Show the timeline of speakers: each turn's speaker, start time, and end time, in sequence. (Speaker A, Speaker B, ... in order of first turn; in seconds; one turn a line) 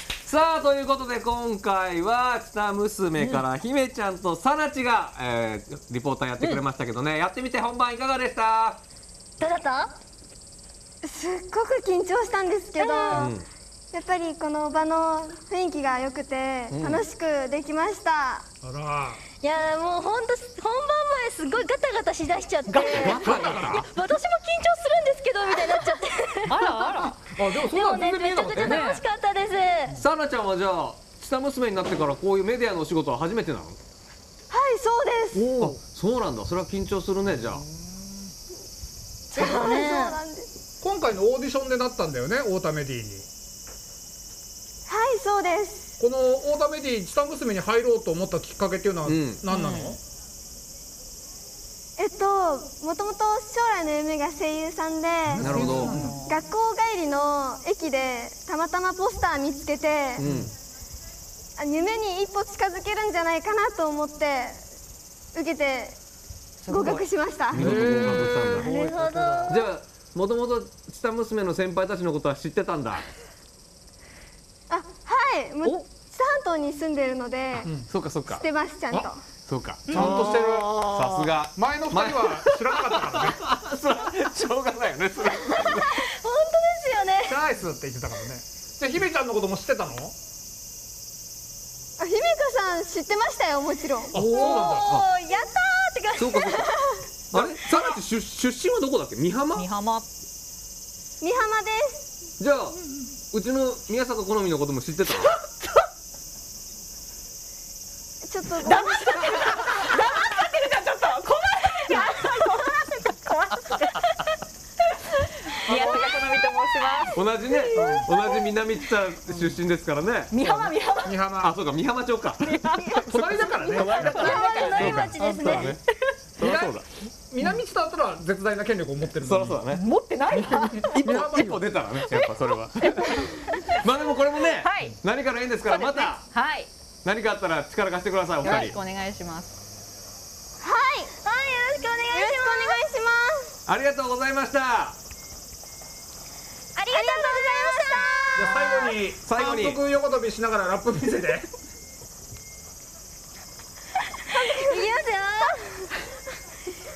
Speaker A: 0.2-8.8
Speaker B: 9.4-9.9
Speaker C: 11.0-13.3
Speaker B: 12.8-13.3
Speaker A: 13.1-13.4
Speaker C: 13.9-18.4
Speaker A: 16.7-17.0
Speaker D: 18.6-19.2
Speaker B: 19.4-27.0
Speaker D: 22.7-23.9
Speaker A: 23.0-23.9
Speaker E: 26.5-27.2
Speaker D: 27.2-29.0
Speaker B: 27.6-29.9
Speaker E: 28.6-29.0
Speaker A: 29.9-33.8
Speaker C: 34.5-35.5
Speaker D: 35.3-35.8
Speaker A: 35.6-37.6
Speaker B: 39.3-40.2
Speaker C: 39.3-40.5
Speaker D: 40.8-43.3
Speaker C: 44.9-45.9
Speaker D: 46.0-50.0
Speaker A: 49.1-49.4
Speaker E: 49.5-50.0
Speaker C: 52.0-55.6
Speaker D: 55.3-56.2
Speaker A: 55.4-56.0
Speaker E: 55.5-56.4
Speaker C: 56.2-60.2
Speaker A: 60.2-60.5
Speaker D: 60.2-60.5
Speaker C: 61.6-64.6
Speaker C: 65.3-66.0
Speaker E: 66.6-67.0
Speaker C: 66.7-67.7
Speaker A: 67.5-68.7
Speaker D: 67.5-68.7
Speaker E: 68.0-69.5
Speaker B: 68.6-69.6
Speaker A: 69.5-73.1
Speaker C: 74.7-77.7
Speaker A: 77.9-78.4
Speaker C: 78.3-79.2
Speaker A: 79.5-86.0
Speaker D: 79.9-80.8
Speaker E: 79.9-81.0
Speaker D: 81.5-83.4
Speaker B: 85.4-87.4
Speaker D: 87.2-90.1
Speaker C: 92.0-94.8
Speaker D: 94.1-95.0
Speaker B: 94.3-96.6
Speaker A: 96.1-96.7
Speaker C: 96.5-97.1
Speaker A: 97.3-99.7
Speaker D: 97.3-97.8
Speaker E: 99.5-100.0
Speaker C: 101.2-102.0
Speaker A: 102.4-102.8
Speaker A: 103.3-105.3
Speaker C: 108.2-109.9
Speaker E: 108.6-114.1
Speaker E: 115.2-117.2
Speaker B: 115.7-116.3
Speaker A: 117.1-120.3
Speaker B: 117.5-118.3
Speaker E: 120.3-121.2
Speaker D: 120.4-121.5
Speaker A: 121.4-125.8
Speaker E: 122.4-125.8
Speaker D: 123.0-124.4
Speaker B: 124.0-125.8
Speaker A: 126.4-126.8
Speaker D: 126.4-129.6
Speaker A: 129.2-129.8
Speaker E: 129.7-131.3
Speaker D: 130.3-131.6
Speaker A: 130.9-136.2
Speaker E: 132.1-133.4
Speaker E: 134.5-135.0
Speaker E: 135.6-136.7
Speaker A: 137.0-138.8
Speaker E: 138.4-139.5
Speaker C: 140.6-141.1
Speaker B: 141.2-142.8
Speaker C: 142.1-143.6
Speaker A: 143.7-144.9
Speaker B: 146.8-148.9
Speaker C: 146.9-148.8
Speaker D: 148.3-151.5
Speaker A: 149.2-149.8
Speaker C: 154.3-155.7
Speaker B: 154.3-155.6